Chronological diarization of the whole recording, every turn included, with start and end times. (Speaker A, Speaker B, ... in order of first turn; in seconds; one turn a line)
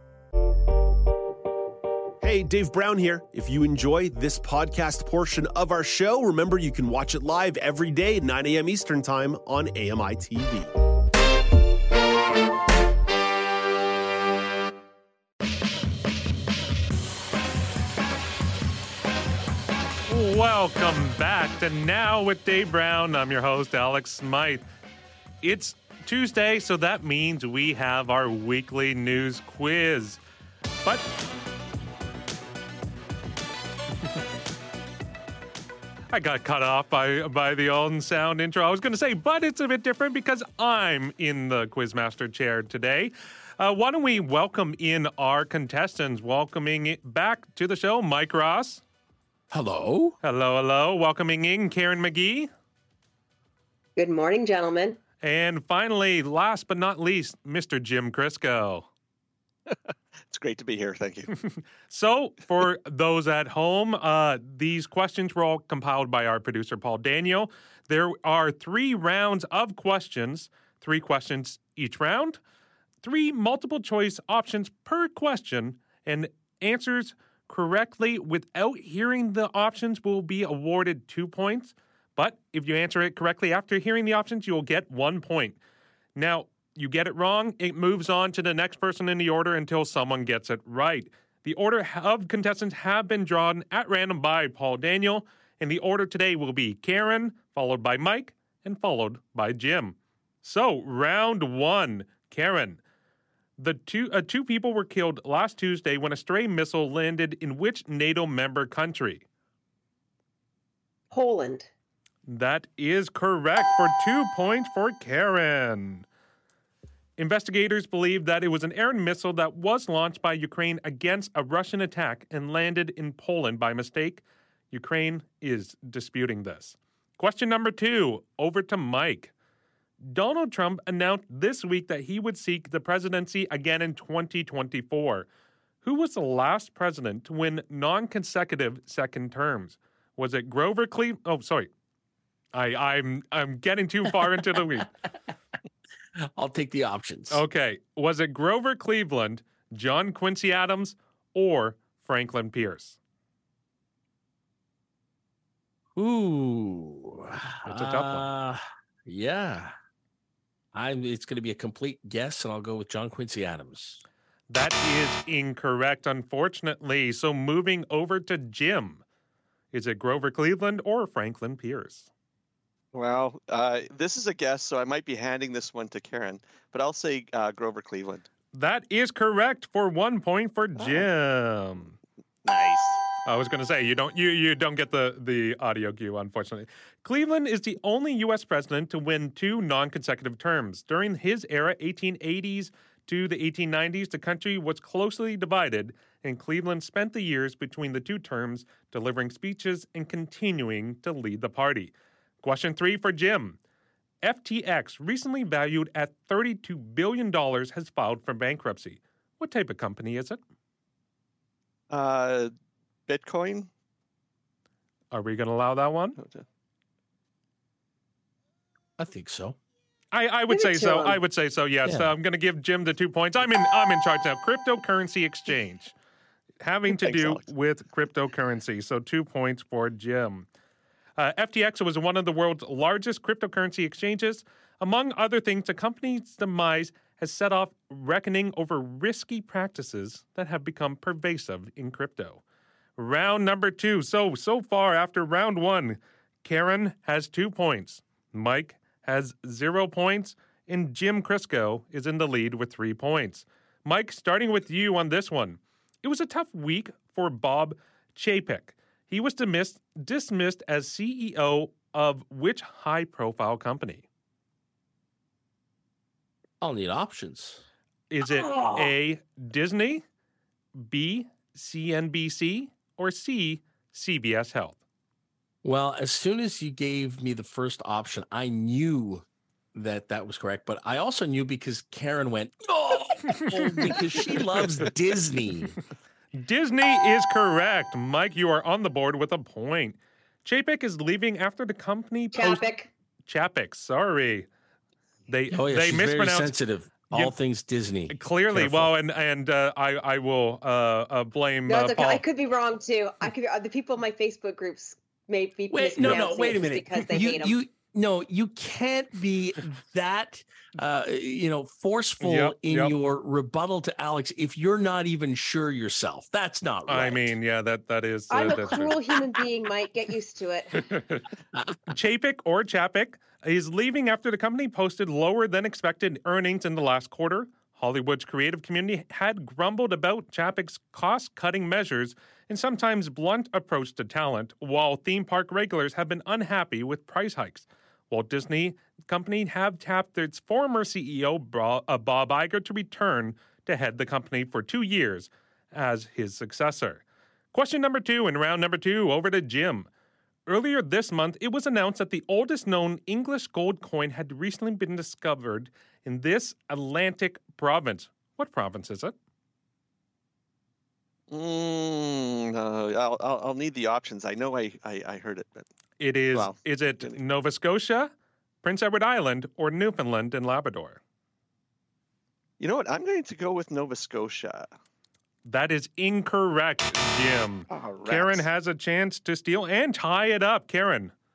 Speaker A: 2.2-10.7
Speaker B: 20.1-24.6
Speaker B: 25.4-30.2
Speaker B: 36.1-48.8
Speaker C: 49.5-50.2
Speaker B: 50.2-52.5
Speaker D: 54.0-55.0
Speaker B: 55.2-58.9
Speaker E: 59.7-61.3
Speaker B: 61.4-72.4
Speaker B: 73.0-85.6
Speaker B: 86.2-102.8
Speaker B: 103.6-109.2
Speaker D: 111.1-111.7
Speaker B: 112.3-116.0
Speaker B: 117.2-129.3
Speaker B: 130.0-135.3
Speaker B: 135.8-141.7
Speaker B: 142.5-144.9
Speaker C: 146.2-147.4
Speaker B: 147.3-153.0
Speaker C: 156.0-159.7
Speaker B: 157.7-158.3
Speaker C: 160.7-164.0
Speaker B: 164.5-169.0
Speaker B: 169.7-172.1
Speaker E: 172.9-178.3
Speaker B: 178.5-182.0
Speaker E: 180.8-181.1
Speaker E: 182.4-183.0
Speaker B: 183.2-203.6
Speaker B: 204.2-210.4
Speaker E: 211.9-212.5
Speaker E: 213.1-213.7
Speaker B: 215.1-216.2
Speaker E: 216.2-216.4
Speaker C: 219.0-219.6
Speaker B: 220.1-225.9
Speaker D: 220.5-221.2
Speaker C: 221.8-222.2
Speaker B: 226.6-230.5
Speaker E: 226.9-227.5
Speaker B: 231.2-242.4
Speaker B: 243.0-264.0
Speaker C: 266.6-267.6
Speaker B: 268.1-270.0
Speaker B: 270.8-274.8
Speaker C: 275.6-285.8
Speaker B: 286.3-292.7
Speaker D: 292.3-292.9
Speaker B: 293.3-294.5
Speaker B: 295.3-296.5
Speaker C: 295.5-298.9
Speaker B: 298.1-302.2
Speaker D: 301.7-307.6
Speaker C: 305.7-317.3
Speaker B: 312.2-312.9
Speaker B: 316.9-319.0
Speaker D: 318.3-320.9
Speaker C: 318.4-318.8
Speaker B: 321.9-349.9
Speaker B: 350.4-359.1
Speaker E: 361.3-365.6
Speaker B: 366.0-368.1
Speaker E: 366.3-367.2
Speaker B: 368.6-371.0
Speaker E: 372.6-374.7
Speaker B: 375.4-381.1
Speaker E: 377.7-378.4